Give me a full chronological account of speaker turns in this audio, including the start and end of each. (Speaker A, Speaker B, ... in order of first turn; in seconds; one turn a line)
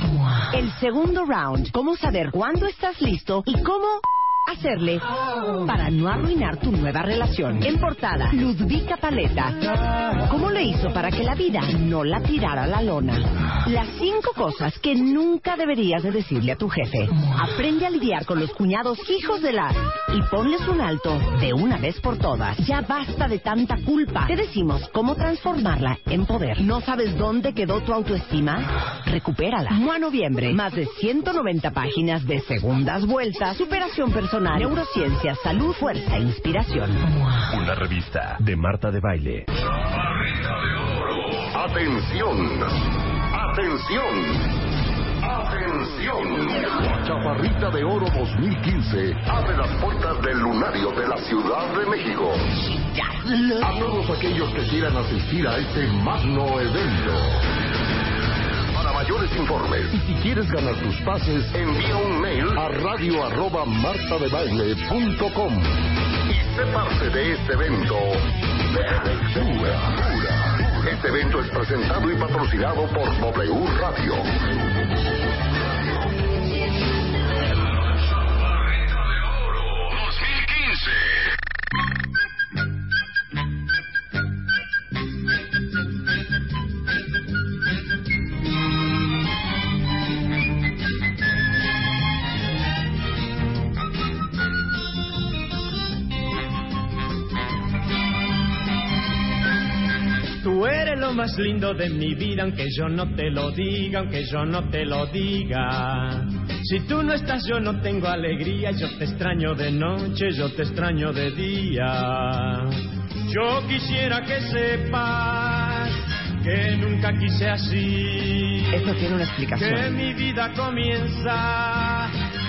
Speaker A: 0.5-5.1
Speaker A: 5.6-9.6
Speaker A: 10.2-37.1
Speaker B: 37.5-39.5
Speaker C: 40.1-42.7
Speaker C: 43.3-44.5
Speaker C: 45.2-52.5
Speaker A: 52.8-53.6
Speaker C: 53.6-57.4
Speaker C: 58.7-74.3
Speaker C: 79.9-80.9
Speaker D: 100.4-112.7
Speaker D: 113.2-118.7
Speaker A: 118.7-119.9
Speaker D: 119.5-122.1